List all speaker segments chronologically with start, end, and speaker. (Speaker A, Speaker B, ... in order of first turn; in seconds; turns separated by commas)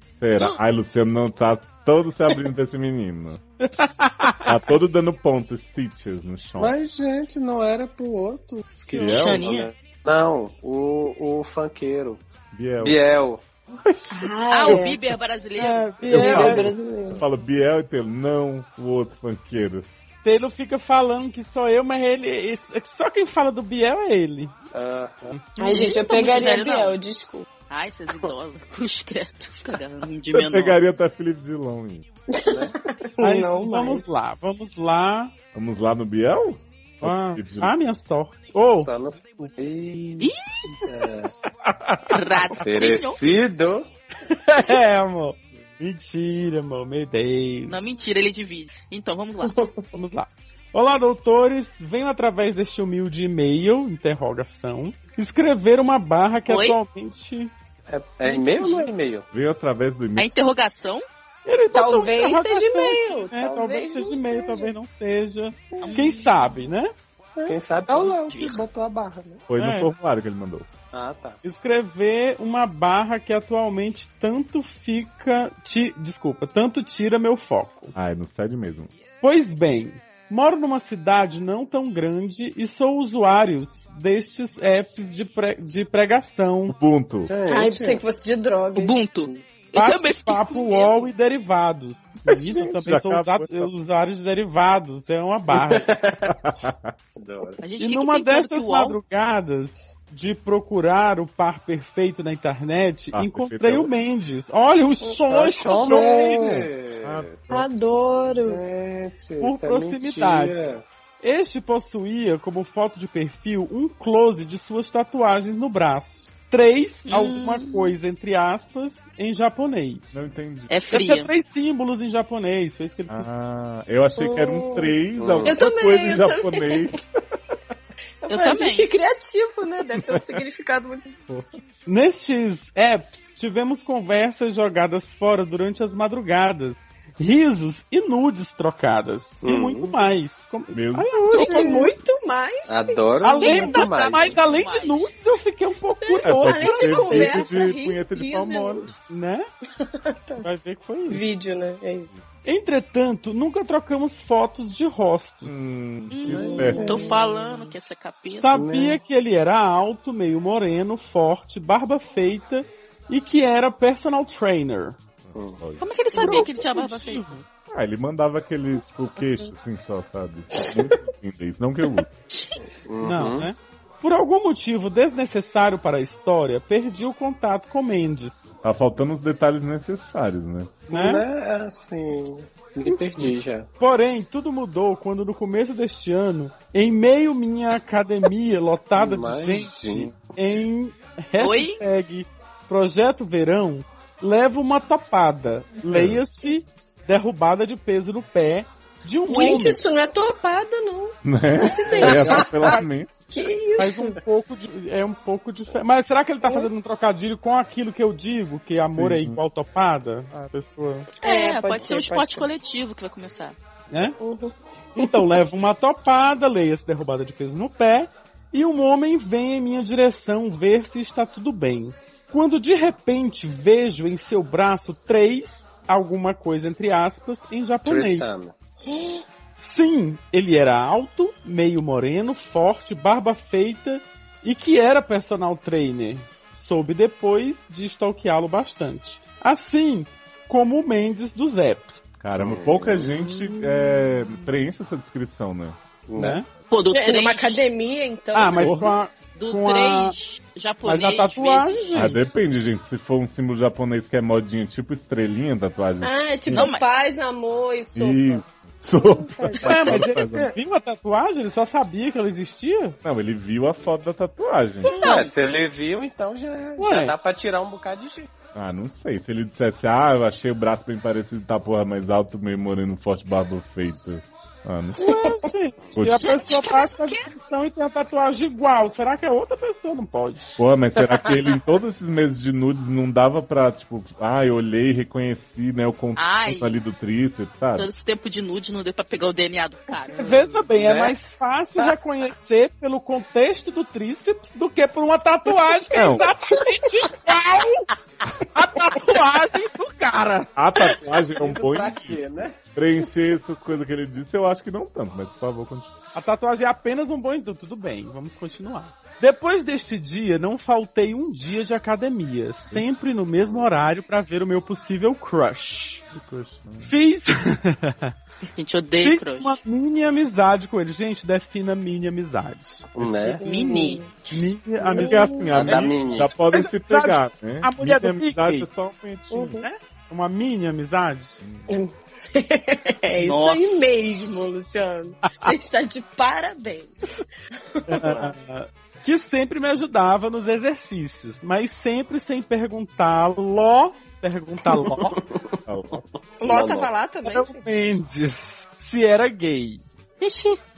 Speaker A: 0.2-3.4, Speaker B: 3.6-4.5, Speaker A: 4.4-6.7, Speaker C: 6.6-12.2, Speaker A: 8.9-9.4, Speaker D: 8.9-9.7, Speaker A: 12.5-13.0, Speaker C: 12.8-13.4, Speaker A: 13.7-14.8, Speaker E: 14.1-15.0, Speaker D: 14.5-15.9, Speaker B: 15.6-16.7, Speaker A: 16.1-19.9, Speaker E: 16.1-17.2, Speaker B: 20.2-24.5, Speaker C: 24.7-25.4, Speaker B: 25.3-26.0, Speaker E: 25.6-27.5, Speaker D: 25.7-27.0, Speaker D: 27.7-30.8, Speaker A: 30.3-32.1, Speaker E: 32.3-34.0, Speaker C: 32.5-32.8, Speaker B: 33.2-35.3, Speaker A: 35.5-37.7, Speaker B: 37.0-39.5, Speaker C: 38.8-40.3, Speaker D: 40.2-40.7, Speaker C: 40.9-41.3, Speaker B: 41.7-42.2, Speaker D: 42.1-43.3, Speaker C: 42.6-43.9, Speaker B: 44.3-47.8, Speaker D: 47.7-49.5, Speaker E: 49.5-49.8, Speaker B: 49.9-57.5, Speaker D: 56.5-56.8, Speaker C: 57.9-59.3, Speaker D: 58.3-58.9, Speaker A: 59.3-60.3, Speaker D: 60.2-61.0, Speaker B: 61.5-66.9, Speaker E: 61.7-64.7, Speaker D: 65.8-66.5, Speaker C: 67.4-69.4, Speaker D: 68.3-68.6, Speaker A: 69.5-70.7, Speaker B: 69.6-69.9, Speaker C: 70.9-71.4, Speaker B: 71.4-77.9, Speaker A: 77.9-78.9, Speaker B: 79.2-86.8, Speaker A: 86.7-87.3, Speaker C: 87.3-88.0, Speaker E: 87.5-89.0, Speaker D: 88.8-91.1, Speaker B: 89.8-95.9, Speaker A: 92.3-93.7, Speaker C: 95.7-96.4, Speaker A: 96.3-96.9, Speaker C: 97.2-97.6, Speaker D: 97.6-99.0, Speaker B: 97.8-106.5, Speaker A: 103.1-103.9, Speaker C: 105.3-107.6, Speaker A: 105.7-107.6, Speaker E: 107.5-108.6, Speaker C: 108.3-110.8, Speaker B: 109.4-110.7, Speaker B: 111.2-120.2, Speaker D: 117.1-117.9, Speaker A: 120.1-120.7, Speaker D: 120.7-121.3, Speaker B: 120.9-123.3, Speaker A: 123.1-127.6, Speaker E: 124.2-124.9, Speaker C: 125.2-125.6, Speaker E: 125.5-126.9, Speaker E: 128.2-131.3, Speaker D: 128.3-128.9, Speaker A: 130.0-130.4, Speaker A: 131.3-131.5, Speaker B: 131.9-141.9, Speaker C: 139.4-139.9, Speaker A: 140.7-141.6, Speaker E: 141.3-143.6, Speaker C: 142.7-144.4, Speaker B: 143.2-147.6, Speaker D: 143.3-145.1, Speaker E: 146.1-148.9, Speaker A: 146.2-149.0, Speaker B: 149.1-149.5, Speaker E: 149.8-150.5, Speaker B: 150.4-151.2, Speaker E: 151.1-152.2, Speaker B: 152.4-155.8, Speaker A: 155.4-156.9, Speaker D: 156.1-158.5, Speaker C: 156.3-157.2, Speaker E: 156.3-157.7, Speaker B: 158.3-165.0, Speaker C: 158.5-159.0, Speaker C: 165.3-165.6, Speaker A: 165.3-166.3, Speaker D: 165.8-167.4, Speaker E: 166.2-166.5, Speaker B: 166.2-167.4, Speaker A: 167.7-172.1, Speaker C: 172.9-173.5, Speaker B: 173.0-178.4, Speaker A: 178.6-180.9, Speaker C: 180.9-183.7, Speaker B: 180.9-181.2, Speaker B: 182.8-183.3, Speaker B: 183.8-199.8, Speaker C: 188.9-190.2, Speaker D: 191.4-191.8, Speaker A: 195.9-196.2, Speaker E: 199.3-202.8, Speaker A: 201.2-203.1, Speaker C: 202.0-202.6, Speaker B: 202.0-202.8, Speaker E: 203.3-204.2, Speaker B: 203.8-211.1, Speaker E: 206.4-206.7, Speaker A: 208.9-209.4, Speaker E: 211.2-212.5, Speaker D: 211.2-213.6, Speaker B: 213.9-214.2, Speaker E: 214.2-215.2, Speaker B: 215.0-228.5, Speaker C: 227.9-228.6, Speaker E: 228.9-229.2, Speaker B: 229.6-242.0, Speaker A: 242.2-245.8, Speaker C: 242.4-243.1, Speaker B: 243.2-244.2, Speaker C: 246.1-246.4, Speaker B: 246.2-246.5, Speaker D: 246.7-247.6, Speaker E: 246.9-248.8, Speaker B: 248.3-250.2, Speaker A: 248.6-248.9, Speaker D: 249.4-252.1, Speaker B: 250.8-252.2, Speaker A: 251.9-256.7, Speaker E: 256.0-258.4, Speaker D: 256.5-256.9, Speaker A: 257.9-260.6, Speaker E: 258.9-260.0, Speaker B: 259.6-263.0, Speaker A: 263.0-265.0, Speaker B: 264.9-265.3, Speaker E: 264.9-265.2, Speaker C: 265.0-268.3, Speaker B: 266.8-267.2, Speaker A: 268.5-275.0, Speaker E: 275.0-275.4, Speaker B: 275.0-280.6, Speaker A: 275.9-276.4, Speaker D: 276.2-277.3, Speaker A: 280.6-287.9, Speaker D: 286.2-286.8, Speaker D: 287.8-290.4, Speaker C: 290.2-291.2, Speaker B: 290.2-297.9, Speaker A: 295.9-296.3, Speaker B: 298.5-300.5, Speaker A: 300.6-305.9, Speaker C: 301.0-302.6, Speaker B: 306.1-316.0, Speaker A: 316.1-316.9, Speaker B: 316.8-318.1, Speaker D: 318.6-319.6, Speaker B: 319.0-323.3, Speaker C: 322.9-323.8, Speaker E: 323.4-324.1, Speaker D: 323.4-324.3, Speaker B: 324.3-328.7, Speaker E: 324.8-325.8, Speaker A: 325.0-329.6, Speaker C: 325.5-326.3, Speaker E: 329.3-329.7, Speaker B: 329.5-331.4, Speaker E: 331.7-337.1, Speaker D: 333.2-333.9, Speaker E: 337.7-338.3, Speaker B: 337.9-345.2, Speaker C: 344.9-345.6, Speaker A: 345.7-346.0, Speaker E: 346.4-347.7, Speaker C: 346.4-346.9, Speaker B: 347.3-349.8, Speaker D: 350.2-350.6